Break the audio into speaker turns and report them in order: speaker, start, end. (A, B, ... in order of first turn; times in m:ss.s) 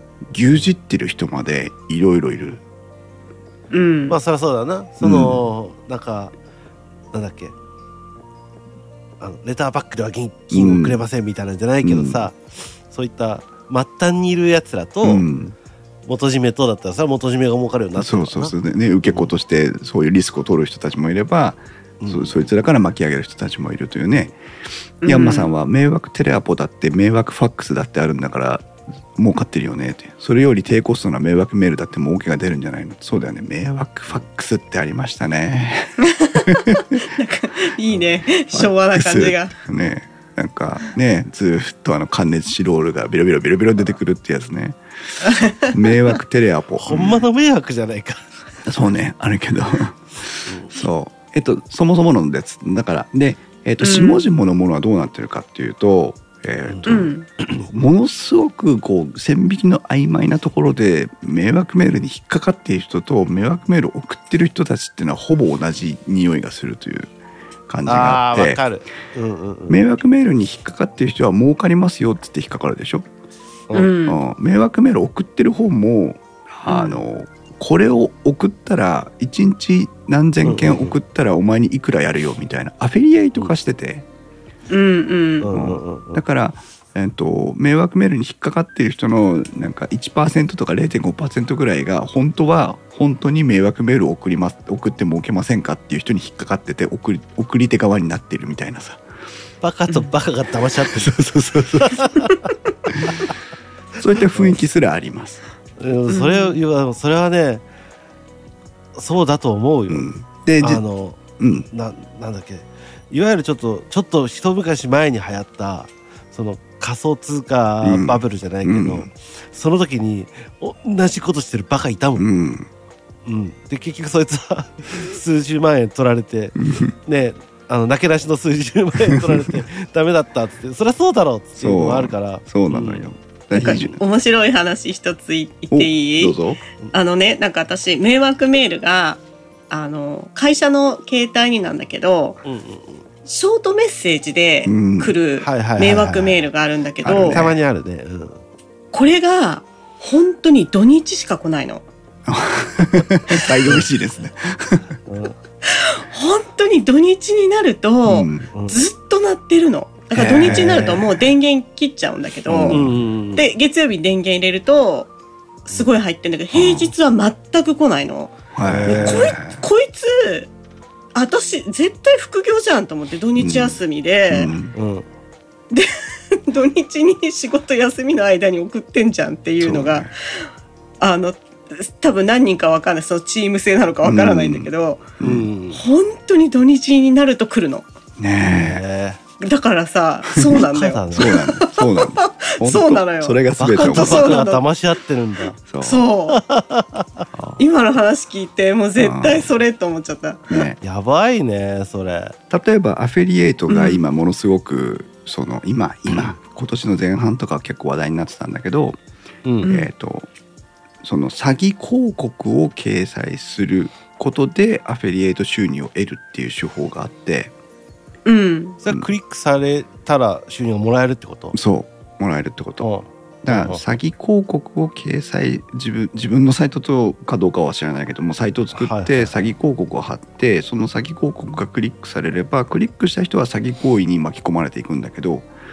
0:00.3-0:02.6 A
0:03.7-0:04.2 B
0:04.1-0:06.3 C
0:05.0-0:05.4 A
0:07.1-0:07.5 C
0:09.2-0:15.2 C
0:10.5-0:11.0 A
0:11.8-0:12.3 A
0:15.0-0:15.6 A
0:16.0-0:19.3 C
0:18.0-0:24.4 A
0:22.0-0:22.4 C
0:25.0-0:25.5 B
0:25.0-0:37.0 A
0:36.0-0:39.5 B
0:38.5-0:47.2 A
0:45.2-0:45.7 B
0:46.8-0:48.2 C
0:48.6-0:57.1 A
0:50.5-0:50.7 C
0:53.8-0:54.3 B
0:56.8-0:57.3 B
0:57.6-1:07.1 A
1:07.7-1:08.6 A
1:07.8-1:09.8 C
1:09.7-1:13.1 A
1:13.7-1:14.2 B
1:14.0-1:24.1 A
1:16.7-1:17.0 B
1:20.4-1:21.0 C
1:24.7-1:25.5 B
1:25.4-1:26.2 C
1:25.5-1:39.0 A
1:39.6-1:42.4 C
1:40.7-1:42.2 A
1:42.9-1:43.2 A
1:43.0-1:43.3 C
1:44.0-1:45.4 A
1:44.3-1:44.6 C
1:45.8-1:47.6 C
1:46.1-1:46.6 B
1:48.9-1:51.2 C
1:49.9-1:50.8 A
1:51.4-1:51.7 A
1:51.7-2:02.3 C
1:57.8-1:59.1 A
2:02.2-2:02.7 A
2:03.2-2:13.1 C
2:06.6-2:06.9 A
2:09.1-2:09.6 A
2:11.6-2:14.0 A
2:13.5-2:16.4 B
2:15.7-2:16.6 A
2:16.9-2:22.4 B
2:22.4-2:23.0 C
2:23.2-2:27.4 B
2:24.6-2:25.1 A
2:25.4-2:26.4 C
2:27.0-2:27.6 A
2:27.2-2:28.4 C
2:28.9-2:31.8 B
2:32.2-2:34.9 A
2:35.1-2:35.4 C
2:35.6-2:42.8 B
2:38.0-2:38.5 A
2:38.5-2:38.8 C
2:40.1-2:41.2 A
2:40.4-2:41.0 C
2:42.5-2:42.9 A
2:42.7-2:43.5 C
2:43.4-2:45.1 B
2:45.6-2:50.5 B
2:46.5-2:46.9 A
2:48.5-2:49.6 A
2:48.6-2:49.3 C
2:51.1-2:54.5 B
2:53.4-2:54.7 A
2:54.7-2:55.1 C
2:55.7-3:00.1 B
2:59.6-3:00.1 A
3:01.0-3:05.1 B
3:04.0-3:05.5 A
3:05.2-3:05.8 C
3:05.7-3:07.8 B
3:08.2-3:08.8 A
3:08.4-3:09.2 C
3:09.4-3:14.6 B
3:10.5-3:11.3 C
3:11.1-3:14.4 A
3:13.6-3:15.6 C
3:15.7-3:16.1 A
3:15.8-3:16.4 B
3:16.3-3:17.2 C
3:17.3-3:17.6 A
3:17.6-3:20.6 B
3:19.0-3:19.5 A
3:20.5-3:20.8 A
3:20.8-3:22.4 C
3:22.5-3:29.0 A
3:23.7-3:24.0 B
3:29.4-3:29.7 C
3:29.6-3:30.3 A
3:31.0-3:37.5 A
3:38.2-3:38.8 B
3:38.8-3:41.6 C
3:41.5-3:42.9 A
3:42.8-3:43.8 C
3:43.4-3:55.5 A
3:48.7-3:49.4 C